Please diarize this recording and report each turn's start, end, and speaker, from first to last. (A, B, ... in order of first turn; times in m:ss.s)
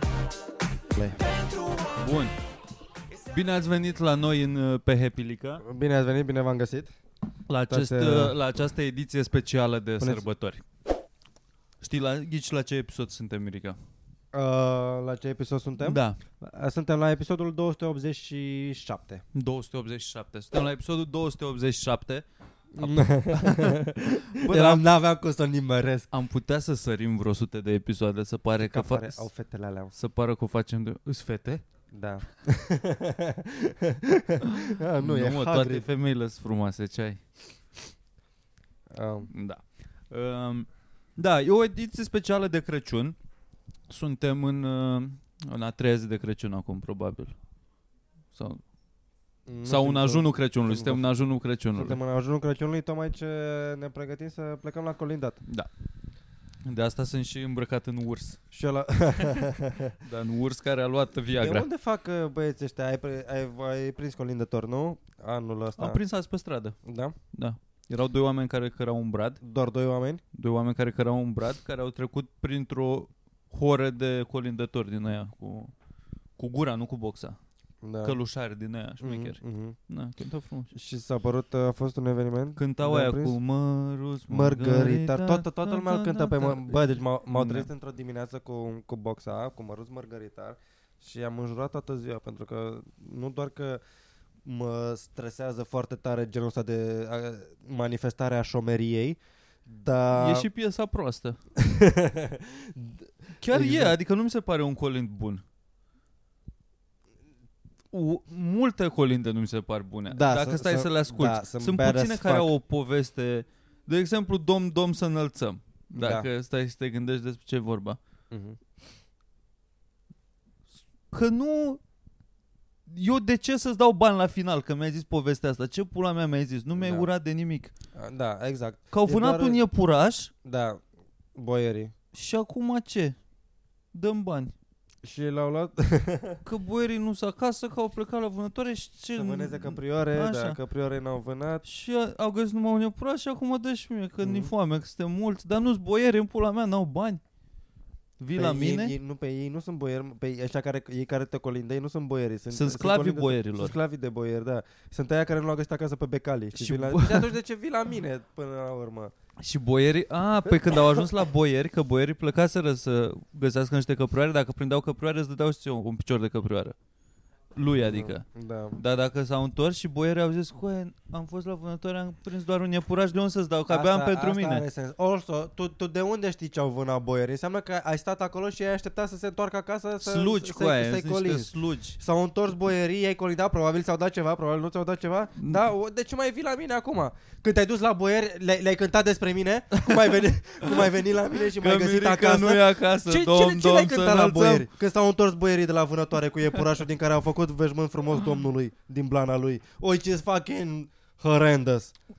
0:01.9-0:02.3 A
0:03.3-0:05.6 A
0:05.6-0:06.9 B
0:07.5-0:10.6 A
0:07.7-0:08.4 B
0:11.8-0:13.8 A
0:14.3-0:19.2 B
0:15.8-0:16.2 A
0:19.4-0:22.2 A
0:22.8-0:26.1 B
0:22.8-0:23.8 A
0:24.4-0:24.8 A
0:26.1-0:29.3 A
0:28.6-0:29.9 B
0:29.9-0:31.6 A
0:31.9-0:35.9 B
0:35.0-0:37.2 A
0:38.9-0:39.3 B
0:39.3-0:43.2 A
0:43.9-0:47.4 A
0:48.4-0:48.6 A
0:49.5-0:51.0 B
0:49.7-0:52.0 A
0:51.8-0:55.4 B
0:56.6-0:58.4 A
0:58.5-0:59.9 B
1:00.0-1:01.7 A
1:01.4-1:06.0 B
1:05.8-1:06.8 A
1:06.8-1:07.2 B
1:07.3-1:09.4 A
1:09.4-1:10.2 B
1:10.3-1:15.7 A
1:16.4-1:17.4 A
1:17.8-1:18.2 B
1:18.0-1:20.7 A
1:19.0-1:19.8 B
1:20.7-1:23.4 B
1:22.6-1:27.7 A
1:24.3-1:33.8 B
1:34.4-1:40.5 B
1:40.2-1:41.4 A
1:41.6-1:43.9 B
1:43.4-1:45.4 A
1:47.9-1:58.0 A
1:50.1-1:52.5 B
1:55.9-1:56.3 B
1:58.3-1:58.6 B
2:01.1-2:01.8 A
2:02.9-2:07.7 A
2:06.8-2:07.1 B
2:08.0-2:09.6 B
2:08.9-2:10.3 A
2:10.4-2:10.8 B
2:11.4-2:11.9 B
2:12.1-2:13.2 A
2:13.9-2:14.5 A
2:15.0-2:16.4 B
2:16.4-2:20.6 A
2:19.2-2:21.6 B
2:21.6-2:27.2 A
2:24.2-2:24.5 B
2:28.2-2:29.0 A
2:28.4-2:39.1 B
2:32.5-2:33.8 A
2:36.6-2:37.3 A
2:39.4-2:46.8 A
2:40.5-2:41.0 B
2:47.6-2:54.6 A
2:47.8-2:48.8 B
2:53.7-3:21.9 B
3:00.0-3:02.0 A
3:09.8-3:14.7 A